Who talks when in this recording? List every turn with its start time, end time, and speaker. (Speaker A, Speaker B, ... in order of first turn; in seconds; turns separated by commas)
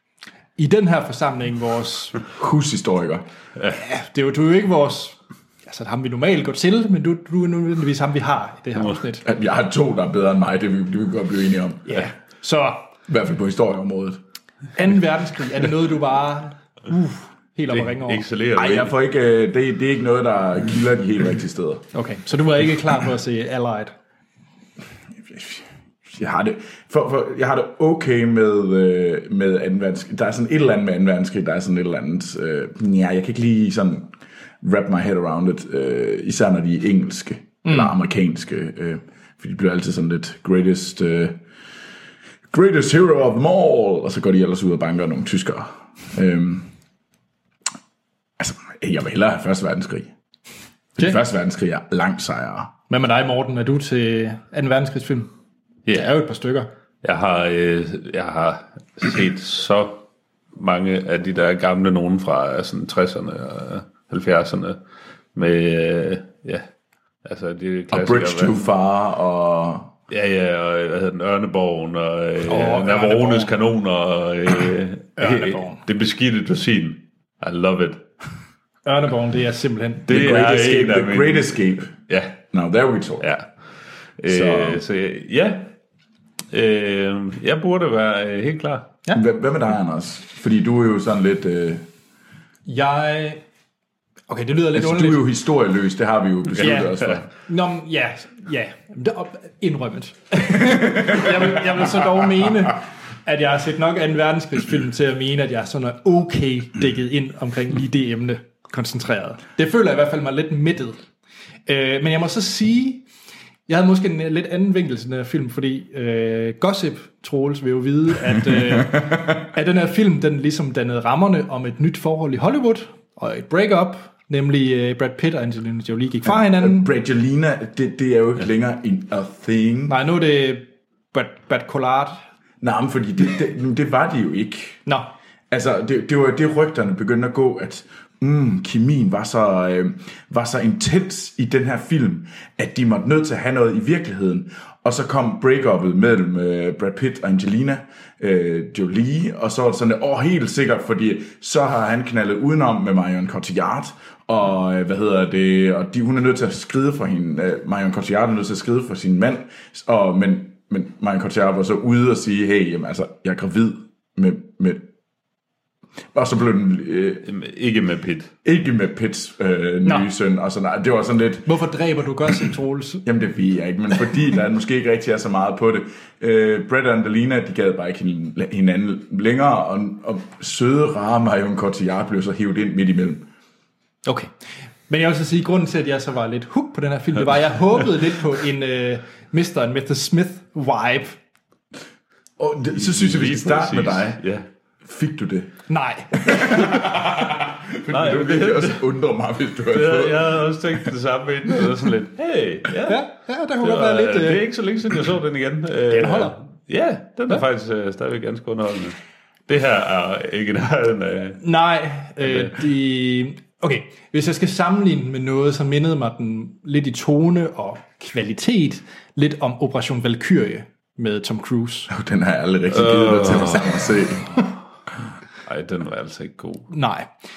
Speaker A: 0.6-2.2, Speaker B: 2.4-3.2, Speaker A: 3.7-9.2, Speaker B: 9.2-12.1, Speaker A: 11.9-12.9, Speaker B: 13.1-14.2, Speaker A: 14.8-18.2, Speaker C: 17.7-18.9, Speaker B: 18.6-21.9, Speaker A: 21.9-23.9, Speaker B: 25.2-41.4, Speaker A: 37.6-37.9, Speaker B: 42.5-46.7, Speaker B: 48.4-50.1, Speaker B: 51.0-52.7, Speaker A: 52.9-55.3, Speaker A: 55.9-56.7, Speaker C: 57.0-60.0, Speaker C: 60.5-64.8, Speaker C: 65.3-66.7, Speaker C: 67.2-68.6, Speaker B: 67.9-69.9, Speaker C: 70.1-78.0, Speaker A: 72.5-73.5, Speaker A: 75.2-75.8, Speaker A: 78.8-80.1, Speaker B: 80.1-81.9, Speaker C: 80.1-82.4, Speaker B: 82.5-83.3, Speaker C: 83.2-83.5, Speaker C: 84.2-85.7, Speaker B: 84.3-84.8, Speaker C: 86.5-88.9, Speaker B: 89.1-91.8, Speaker A: 92.7-93.4, Speaker A: 94.3-95.3, Speaker B: 94.7-97.3, Speaker A: 96.6-111.0, Speaker A: 111.7-113.0, Speaker A: 113.7-126.9, Speaker B: 126.3-130.0, Speaker A: 129.9-132.2, Speaker B: 132.6-134.8, Speaker A: 134.9-135.1, Speaker B: 135.5-164.9, Speaker B: 166.1-167.2, Speaker C: 167.3-168.3, Speaker B: 168.4-171.5, Speaker A: 169.8-170.1, Speaker A: 171.5-173.1, Speaker B: 173.1-183.3, Speaker A: 184.1-184.3, Speaker A: 184.9-191.2, Speaker B: 192.4-194.2, Speaker C: 192.8-194.5, Speaker B: 194.8-195.5, Speaker A: 195.7-196.7, Speaker B: 196.2-200.9, Speaker C: 197.9-198.8, Speaker C: 199.7-203.1, Speaker A: 202.9-204.4, Speaker C: 203.6-209.0, Speaker A: 205.9-206.4, Speaker C: 209.5-211.4, Speaker A: 211.4-221.9, Speaker C: 212.2-212.5, Speaker B: 221.9-224.4, Speaker C: 222.7-223.9, Speaker C: 225.5-226.7, Speaker A: 226.7-227.1